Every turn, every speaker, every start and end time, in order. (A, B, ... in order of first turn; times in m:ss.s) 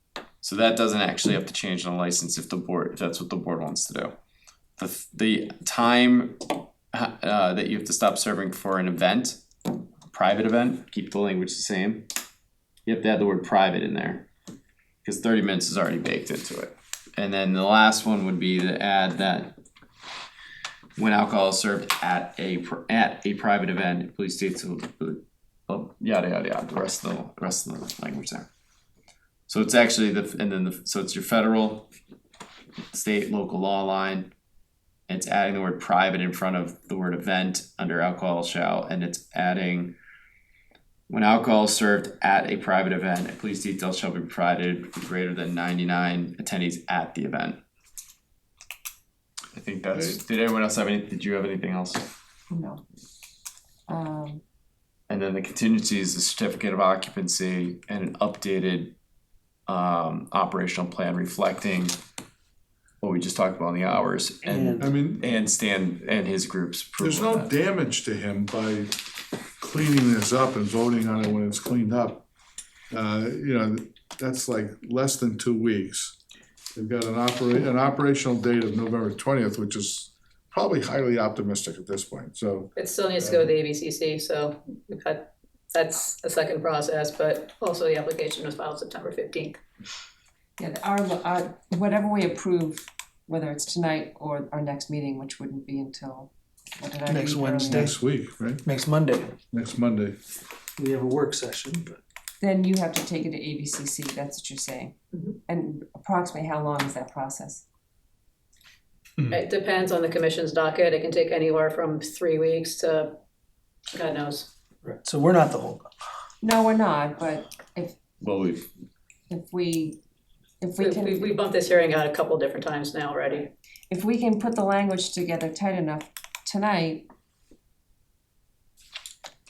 0:00.4-0:04.2 A
0:04.8-0:09.4 A
0:10.1-0:12.1 A
0:12.9-0:14.3 A
0:15.0-0:19.6 A
0:21.0-0:28.5 A
0:29.5-0:31.9 A
0:32.9-0:34.3 A
0:35.1-0:40.0 A
0:41.1-0:47.6 A
0:49.5-0:52.1 A
0:49.9-0:50.2 B
0:52.5-0:52.8 C
0:53.9-0:54.4 C
0:55.1-0:58.9 A
0:59.7-1:02.0 A
1:03.0-1:07.5 A
1:04.4-1:04.9 D
1:04.8-1:05.3 B
1:07.0-1:09.0 B
1:09.6-1:12.3 B
1:12.9-1:16.2 B
1:16.8-1:23.5 B
1:22.8-1:29.6 E
1:30.6-1:37.8 C
1:37.0-1:38.0 D
1:37.6-1:38.6 B
1:38.6-1:39.4 D
1:39.5-1:40.2 B
1:40.8-1:42.0 D
1:42.4-1:44.9 C
1:45.5-1:47.6 C
1:49.3-1:53.2 E
1:53.9-1:54.5 E
1:54.8-1:55.9 D
1:56.4-1:58.0 C
1:58.2-1:58.7 A
1:59.3-2:00.0 C
2:00.6-2:01.2 C
2:00.8-2:03.5 E
2:03.9-2:07.1 C